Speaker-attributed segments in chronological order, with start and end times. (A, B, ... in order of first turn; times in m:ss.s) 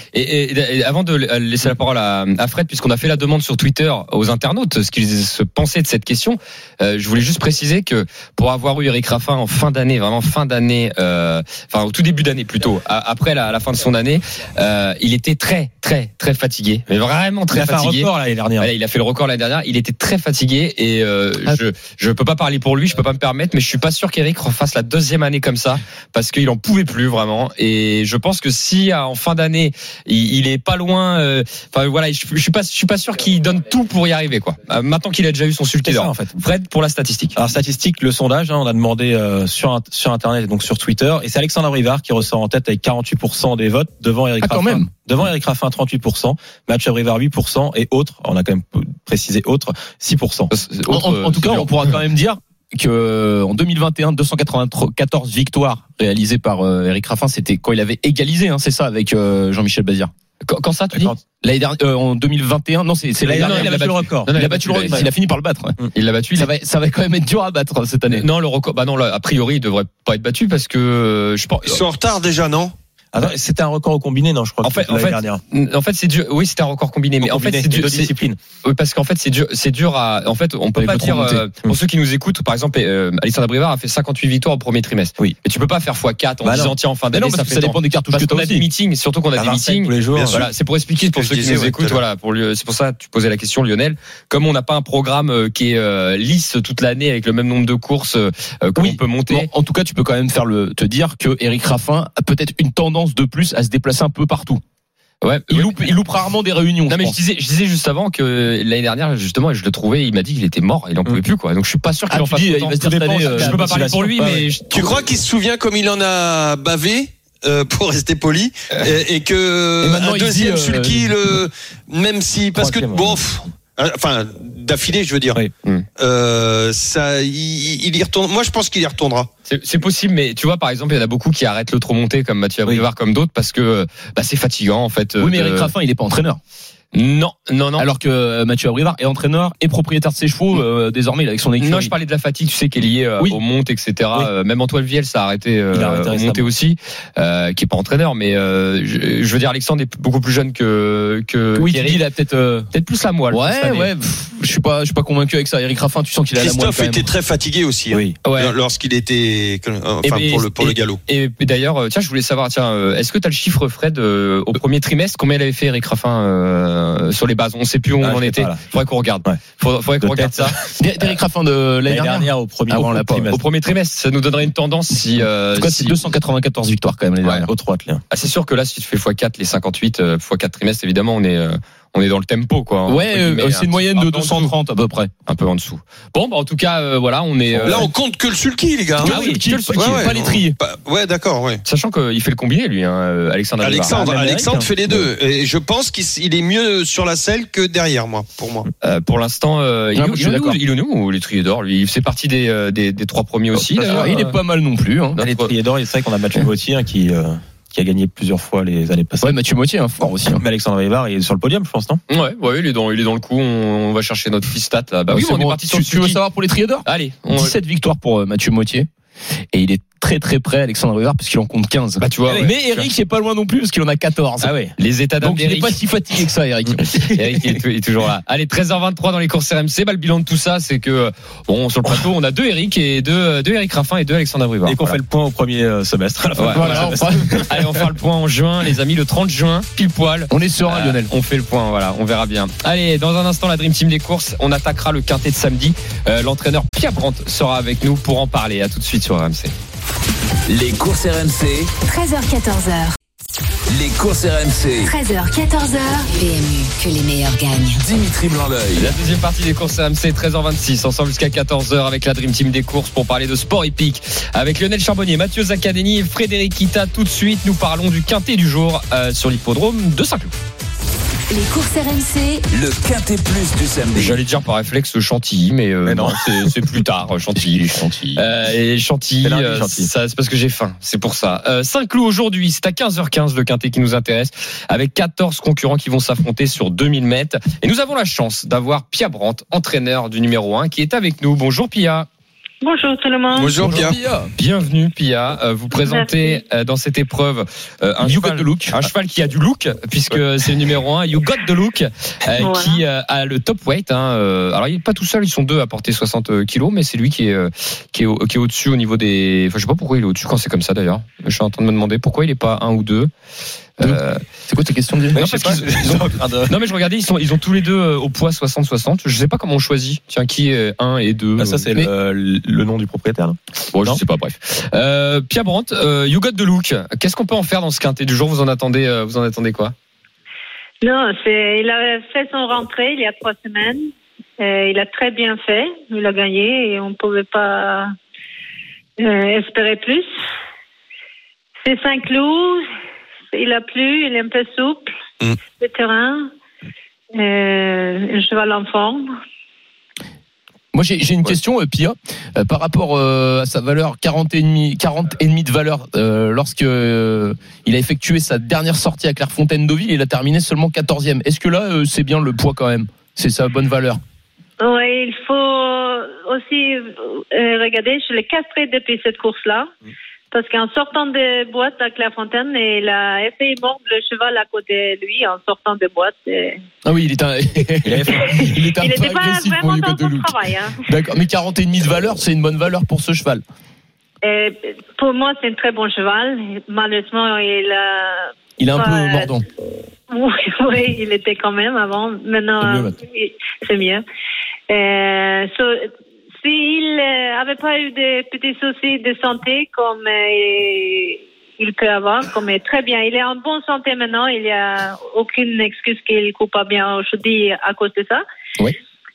0:00.1-0:37.4 A
0:17.5-0:18.7 B
0:35.8-0:36.3 B
0:37.4-0:50.5 B
0:44.4-0:44.9 C
0:50.5-0:51.7 A
0:50.9-1:00.1 C
1:00.4-1:01.1 A
1:00.9-1:01.2 B
1:01.4-1:05.8 C
1:03.2-1:04.3 B
1:03.4-1:05.1 A
1:05.9-1:06.5 A
1:06.4-1:08.2 C
1:08.1-1:11.8 A
1:11.6-1:12.7 D
1:13.1-1:15.4 B
1:14.6-1:18.1 A
1:17.2-1:18.4 B
1:18.6-1:39.5 A
1:20.8-1:21.4 C
1:26.4-1:26.7 B
1:27.1-1:28.6 C
1:29.3-1:30.5 B
1:30.2-1:30.5 D
1:31.1-1:32.0 D
1:38.8-1:44.6 C
1:45.2-1:45.9 A
1:45.5-1:47.2 C
1:46.9-1:55.0 A
1:52.1-1:53.8 C
1:52.8-1:54.5 B
1:54.7-2:05.4 D
1:59.8-2:01.1 C
2:02.5-2:03.4 B
2:06.0-2:09.3 D
2:09.5-2:15.7 A
2:15.2-2:16.4 C
2:16.9-2:17.8 A
2:17.8-2:21.9 C
2:21.6-2:32.0 A
2:25.7-2:26.5 B
2:31.6-2:32.7 C
2:32.7-2:33.9 A
2:33.3-2:37.1 C
2:36.4-2:41.0 D
2:37.9-2:38.2 B
2:38.2-2:38.5 A
2:40.0-2:50.6 A
2:48.0-2:48.6 B
2:50.0-2:50.6 B
2:50.8-2:53.3 C
2:51.8-2:53.4 B
2:53.3-2:56.0 A
2:55.6-2:57.5 C
2:57.3-2:58.0 B
2:58.1-3:04.5 A
3:02.9-3:05.1 C
3:05.3-3:07.9 A
3:07.5-3:07.8 B
3:07.6-3:09.1 D
3:09.0-3:10.1 A
3:09.0-3:10.6 C
3:09.1-3:09.4 B
3:09.8-3:11.6 D
3:11.6-3:14.0 A
3:13.6-3:18.7 D
3:13.8-3:15.1 B
3:18.8-3:24.4 A
3:20.0-3:20.6 C
3:23.5-3:24.3 B
3:23.8-3:25.2 C
3:25.2-3:25.5 A
3:25.2-3:29.4 B
3:29.2-3:30.4 C
3:30.2-3:32.0 B
3:32.1-3:36.2 A
3:35.1-3:38.9 C
3:36.8-3:37.5 A
3:39.5-3:44.5 C
3:42.0-3:42.9 A
3:44.4-3:44.7 B
3:44.8-3:45.8 A
3:45.2-3:47.6 C
3:47.0-3:55.0 A
3:54.6-3:57.4 B
3:56.4-4:09.5 A
3:56.5-3:57.6 C
4:00.3-4:01.1 C
4:10.5-4:11.8 E
4:11.8-4:13.0 F
4:13.7-4:15.0 E
4:14.8-4:17.8 F
4:17.8-4:18.9 E
4:18.8-4:30.3 A
4:31.3-4:32.4 F
4:32.5-4:34.2 E
4:33.9-4:37.6 A
4:35.8-4:36.2 B
4:37.4-4:38.2 C
4:38.2-4:52.1 A
4:39.2-4:39.9 B
4:52.6-4:53.6 G
4:53.3-4:54.0 D
4:53.6-4:54.3 C
4:54.4-5:13.1 A
4:55.8-4:56.4 G
4:58.0-4:58.8 C
5:02.4-5:02.8 G
5:13.8-5:14.2 A
5:13.8-5:15.3 C
5:15.1-5:16.5 B
5:15.1-5:21.7 A
5:21.4-5:24.0 B
5:23.7-5:29.7 A
5:30.8-5:33.9 G
5:34.4-5:37.9 G
5:39.0-5:40.1 G
5:41.6-5:42.7 G
5:43.3-5:44.9 G
5:45.6-5:46.3 G
5:47.1-5:49.1 G
5:50.7-6:04.0 C
6:04.6-6:09.7 G
6:10.3-6:16.6 G
6:16.8-6:20.3 C
6:17.8-6:18.4 B
6:18.8-6:20.8 G
6:20.8-6:23.4 C
6:24.2-6:29.3 G
6:28.6-6:29.4 C
6:30.1-6:34.0 G
6:32.6-6:32.9 B
6:34.7-6:35.9 G
6:36.4-6:48.2 G